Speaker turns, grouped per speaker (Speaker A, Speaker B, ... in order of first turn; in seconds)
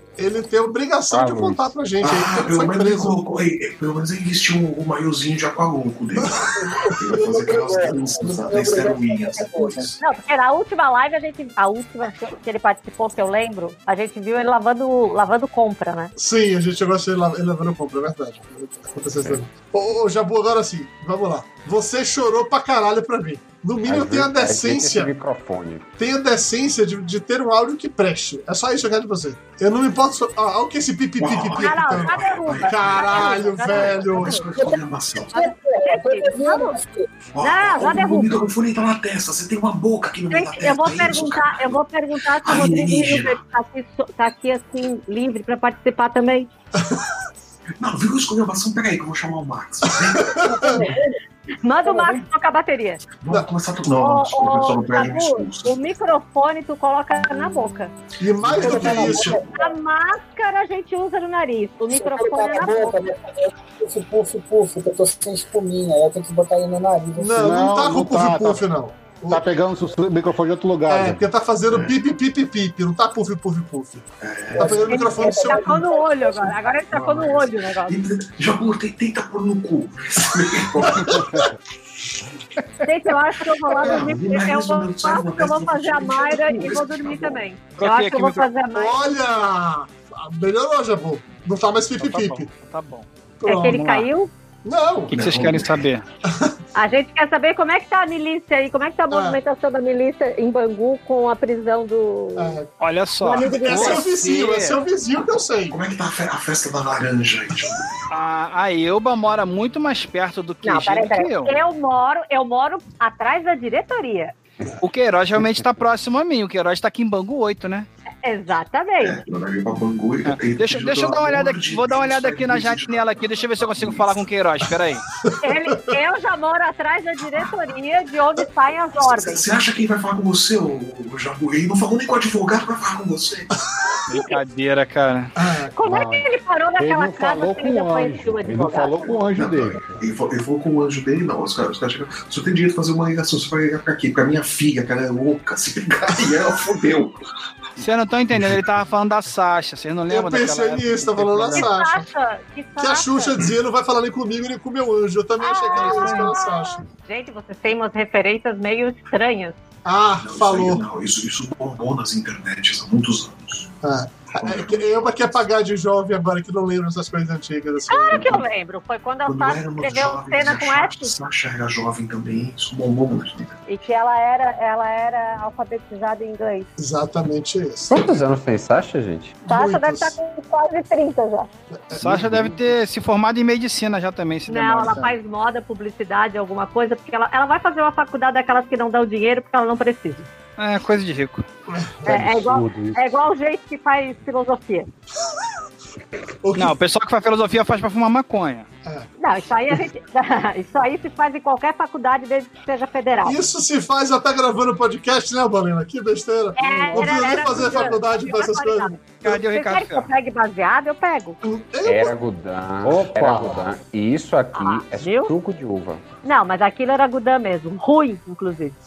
Speaker A: 0.2-3.2, 16.2-25.1, 26.0-34.4, 46.8-47.1, 49.9-50.8, 58.2-59.4, 67.2-69.4, 70.9-74.0, 74.6-76.0, 80.8-81.5, 88.7-92.5, 93.4-93.9, 94.7-95.1, 99.1-99.4, 102.4-102.7, 103.3-105.8, 125.2-125.9, 135.4-135.8, 150.1-152.1, 152.8-156.8, 159.8-160.8, 163.8-168.3, 176.8-178.2, 179.4-180.2, 181.7-182.5, 191.7-192.2, 196.4-196.8, 203.2-208.9, 211.4-212.2
Speaker B: 1.1-1.7, 23.9-25.9, 177.9-179.4, 211.8-216.0
Speaker C: 2.0-10.0, 31.2-35.4, 37.3-41.8, 42.4-43.4, 47.8-50.5, 53.2-55.7, 58.4-59.4, 74.2-75.0, 76.9-81.5, 83.7-87.5, 95.1-95.9, 105.7-107.9, 119.0-124.3, 129.0-133.5, 139.4-147.2, 160.2-163.7, 164.4-165.1, 168.1-168.4, 169.3-173.6
Speaker D: 6.8-10.0, 34.5-37.1, 50.4-51.1, 51.8-52.2, 58.4-59.7, 61.9-67.5, 74.6-76.4
Speaker E: 10.0-16.1, 31.6-34.5, 35.4-36.8, 37.4-38.4, 40.3-46.5, 50.6-50.9, 51.6-53.0, 54.0-57.9, 59.5-63.0, 74.8-78.0, 82.8-89.0, 93.5-94.3, 96.8-102.6, 103.3-104.0, 110.6-114.3, 118.2-119.2, 125.4-129.5, 135.8-139.1, 151.5-153.4, 155.4-159.6, 167.9-171.1, 173.7-176.7, 179.5-181.5, 184.5-190.3, 192.1-194.9, 199.2-203.4, 206.6-211.4, 214.6-215.3, 216.2-218.8
Speaker F: 67.4-68.6, 69.3-71.2, 135.8-136.3, 136.8-140.0, 192.1-193.0, 212.8-213.7
Speaker G: 87.8-88.5, 92.0-93.1, 93.6-94.1, 95.1-96.0, 102.8-104.8, 108.1-111.6, 114.8-117.9, 120.2-125.1, 134.1-135.3, 147.8-151.7, 155.7-156.3, 181.9-185.1, 190.6-191.5, 196.6-198.7, 206.9-207.7, 209.2-210.1